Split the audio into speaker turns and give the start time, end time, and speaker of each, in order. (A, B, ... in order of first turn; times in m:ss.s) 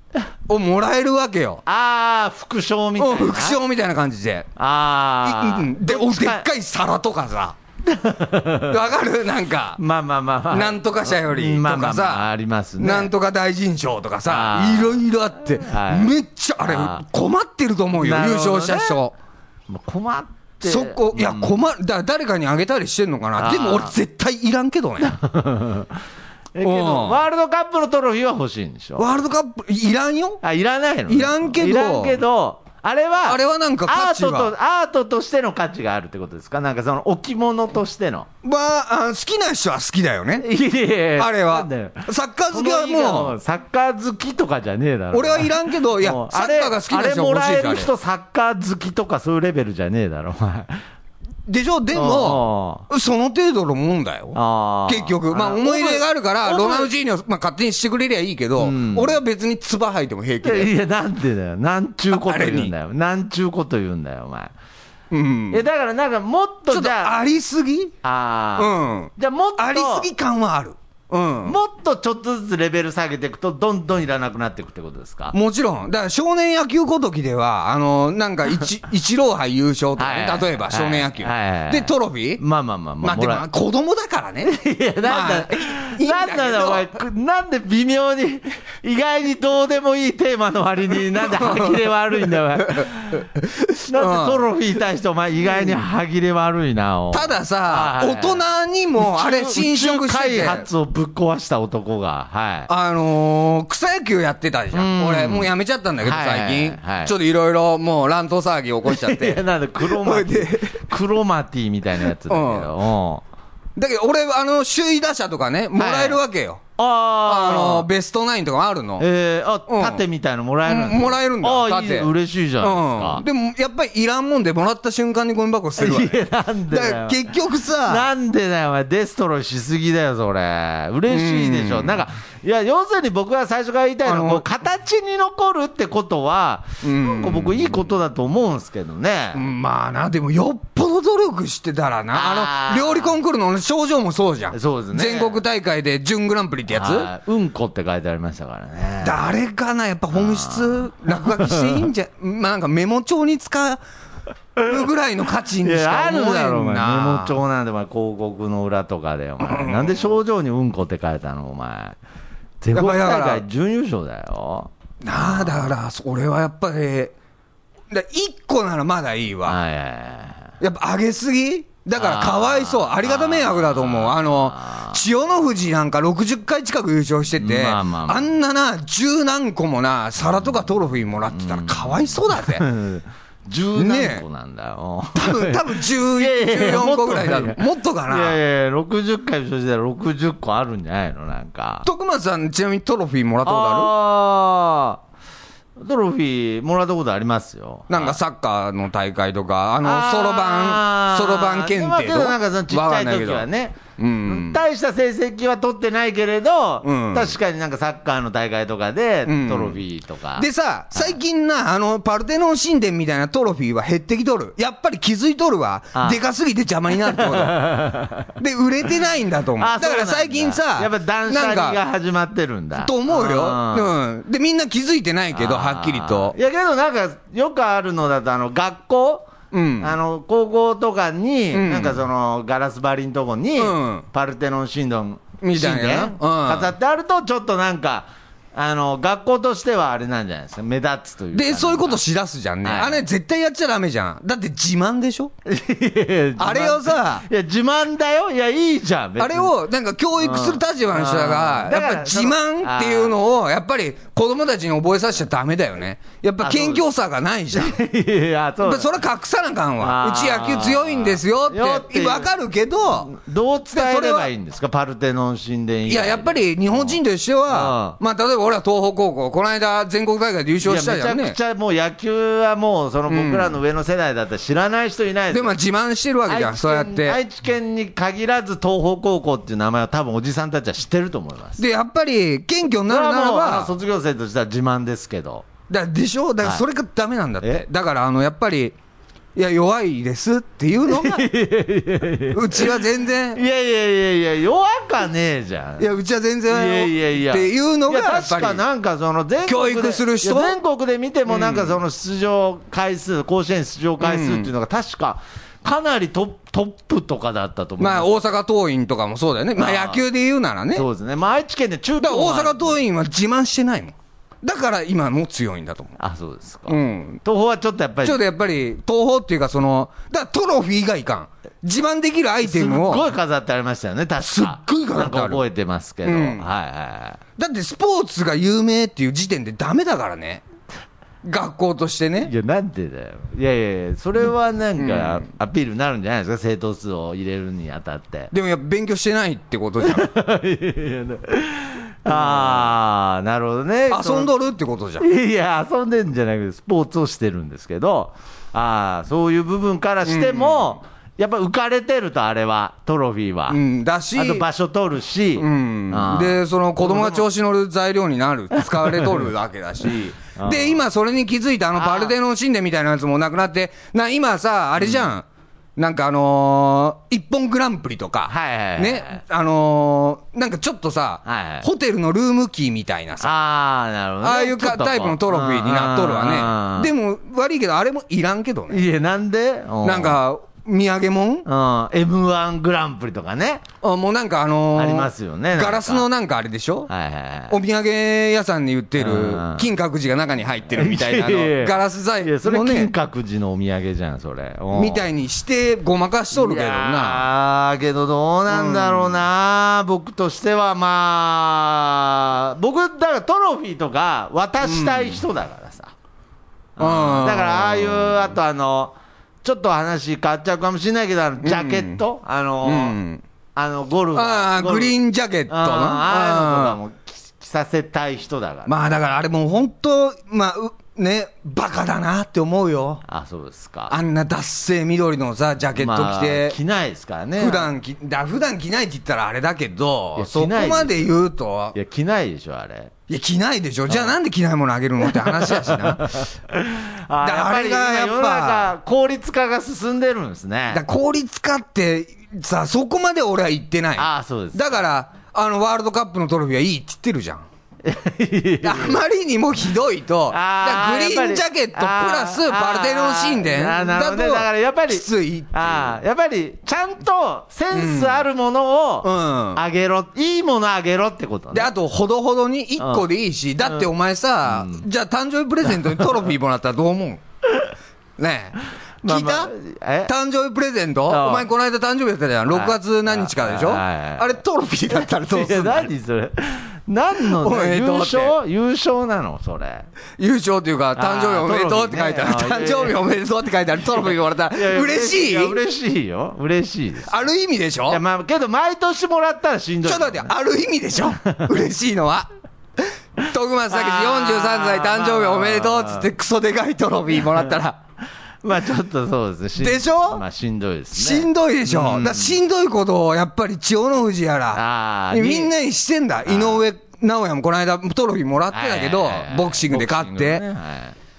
0:00.5-0:01.6 A
0:01.6-0:03.6 B
0:03.0-0:04.5 A
0:04.6-0:06.5 B
0:05.2-0:07.6 A
0:07.8-0:08.8 B
0:08.7-0:09.8 A
0:09.8-0:13.1 B
0:10.5-0:12.3 A
0:12.8-0:19.1 A
0:14.2-0:15.0 B
0:15.6-0:17.0 B
0:17.9-0:19.0 B
0:19.7-0:21.6 B
0:20.6-0:25.1 A
0:23.4-0:23.9 B
0:25.0-0:26.0 B
0:26.5-0:29.1 B
0:26.6-0:27.2 A
0:29.0-0:30.4 A
0:30.4-0:38.3 B
0:31.1-0:32.2 A
0:33.2-0:34.5 A
0:38.4-0:40.5 A
0:40.4-0:50.8 B
0:41.2-0:43.4 A
0:45.1-0:47.9 A
0:51.5-1:00.7 A
0:51.9-0:52.9 B
0:54.3-0:56.9 B
0:58.6-0:59.2 B
1:00.4-1:04.5 B
1:02.1-1:02.7 A
1:05.1-1:05.6 A
1:05.5-1:07.1 B
1:06.7-1:07.9 A
1:08.0-1:10.1 B
1:08.6-1:11.6 A
1:11.4-1:15.4 B
1:15.3-1:22.4 A
1:20.0-1:23.4 B
1:23.0-1:24.5 A
1:24.4-1:33.2 B
1:25.0-1:26.9 A
1:31.1-1:34.4 A
1:33.8-1:38.4 B
1:37.1-1:40.7 A
1:39.0-1:42.7 B
1:42.7-1:50.8 A
1:44.7-1:47.1 B
1:48.8-1:53.2 B
1:52.2-1:52.7 A
1:53.8-1:56.6 A
1:55.8-1:56.2 B
1:56.8-1:57.9 B
1:57.2-1:59.0 A
1:59.0-2:03.2 B
1:59.7-2:00.0 A
2:00.6-2:08.1 A
2:05.8-2:07.3 B
2:07.8-2:19.4 B
2:11.1-2:12.0 A
2:14.0-2:14.4 A
2:16.8-2:17.8 A
2:19.3-2:27.1 A
2:22.1-2:23.2 B
2:24.5-2:25.4 B
2:26.7-2:29.4 B
2:29.0-2:33.8 A
2:30.1-2:31.8 B
2:34.6-2:37.4 A
2:35.6-2:42.0 B
2:39.4-2:40.0 A
2:42.6-2:45.6 B
2:42.7-2:43.4 A
2:45.0-2:47.1 A
2:47.9-2:49.6 A
2:49.4-2:50.5 B
2:50.6-3:02.6 A
2:51.9-2:55.0 B
2:57.4-2:58.3 B
3:01.3-3:11.9 B
3:03.8-3:04.2 A
3:05.1-3:08.4 A
3:11.8-3:13.9 A
3:13.4-3:15.0 B
3:15.8-3:18.2 B
3:17.9-3:24.6 A
3:19.8-3:31.2 B
3:26.8-3:27.4 A
3:29.3-3:29.8 A
3:30.4-3:37.7 A
3:35.9-3:36.2 B
3:37.0-3:38.3 B
3:38.4-3:41.8 A
3:39.6-3:43.9 B
3:42.8-3:46.4 A
3:45.3-4:02.0 B
3:49.5-3:50.0 A
3:51.5-3:52.0 A
3:53.6-3:54.0 A
3:55.4-3:56.7 A
4:01.3-4:05.3 A
4:02.6-4:03.0 B
4:05.4-4:09.5 B
4:06.4-4:07.2 A
4:09.2-4:17.8 A
4:10.2-4:13.2 B
4:16.4-4:16.8 B
4:17.5-4:18.9 B
4:18.6-4:23.1 A
4:19.8-4:22.3 B
4:22.8-4:28.0 B
4:23.7-4:24.3 A
4:25.9-4:31.4 A
4:30.6-4:35.5 B
4:33.1-4:33.5 A
4:35.3-4:37.2 A
4:36.2-4:41.6 B
4:41.6-4:43.7 A
4:42.9-4:45.5 B
4:45.7-4:48.7 A
4:49.3-4:51.3 A
4:50.8-4:52.8 B
4:52.3-4:53.4 A
4:53.3-4:55.9 B
4:55.8-4:58.6 A
4:56.5-5:08.2 B
4:59.4-5:00.6 A
5:01.3-5:01.8 A
5:04.0-5:04.5 A
5:07.8-5:10.8 A
5:09.6-5:10.0 B
5:10.7-5:12.8 B
5:12.0-5:16.0 A
5:16.0-5:18.2 B
5:16.7-5:17.2 A
5:18.0-5:23.1 A
5:22.4-5:27.2 B
5:24.2-5:25.4 A
5:26.0-5:26.4 A
5:27.4-5:30.4 A
5:31.2-5:32.3 A
5:32.2-5:38.3 B
5:34.8-5:35.2 A
5:38.3-5:40.1 A
5:39.8-5:44.3 B
5:42.1-5:42.7 A
5:43.9-5:45.0 A
5:45.0-5:53.6 B
5:50.0-5:50.8 A
5:53.5-5:54.4 A
5:54.1-5:57.2 B
5:55.4-6:05.2 A
5:58.5-5:59.2 B
6:00.3-6:00.8 B
6:01.8-6:02.1 B
6:04.8-6:05.1 B
6:05.8-6:13.3 A
6:08.3-6:09.2 B
6:11.2-6:11.7 B
6:13.2-6:16.9 B
6:14.2-6:18.8 A
6:18.7-6:20.2 B
6:19.8-6:21.4 A
6:21.4-6:23.6 B
6:23.8-6:26.9 A
6:24.7-6:26.0 B
6:26.9-6:27.6 B
6:27.5-6:32.9 A
6:29.0-6:29.7 B
6:30.7-6:35.0 B
6:34.7-6:37.3 A
6:36.3-6:45.9 B
6:38.5-6:39.2 A
6:44.6-6:45.2 A
6:46.8-6:53.0 B
6:46.8-6:48.3 A
6:51.4-6:52.0 A
6:52.6-6:53.2 A
6:53.5-6:55.0 B
6:54.1-6:56.8 A
6:55.5-6:58.7 B
6:58.7-7:03.0 A
7:03.0-7:04.0 B
7:03.9-7:06.6 A
7:05.7-7:07.7 B
7:07.4-7:11.7 A
7:10.2-7:11.1 B
7:11.7-7:12.9 B
7:13.1-7:16.2 A
7:13.9-7:14.1 B
7:15.0-7:20.8 B
7:17.2-7:18.7 A
7:20.7-7:27.4 A
7:24.0-7:24.8 B
7:27.8-7:29.0 B
7:28.6-7:36.0 A
7:30.3-7:41.7 B
7:37.7-7:38.2 A
7:39.0-7:39.6 A
7:41.5-7:47.2 A
7:42.8-7:43.0 B
7:43.6-7:43.9 B
7:44.4-7:44.8 B
7:45.8-7:46.0 B
7:48.2-7:49.5 A
7:49.0-7:50.1 B
7:50.1-7:55.9 A
7:51.1-7:51.5 B
7:52.5-7:54.4 B
7:54.9-7:59.9 B
7:57.2-7:58.4 A
8:00.2-8:05.6 A
8:01.0-8:03.0 B
8:04.5-8:07.2 B
8:07.1-8:08.0 A
8:07.9-8:10.3 B
8:09.8-8:12.3 A
8:11.2-8:11.5 B
8:13.2-8:17.8 A
8:13.7-8:16.1 B
8:18.4-8:22.4 B
8:19.6-8:20.2 A
8:20.9-8:30.4 A
8:24.5-8:25.5 B
8:26.2-8:26.6 B
8:28.5-8:31.0 B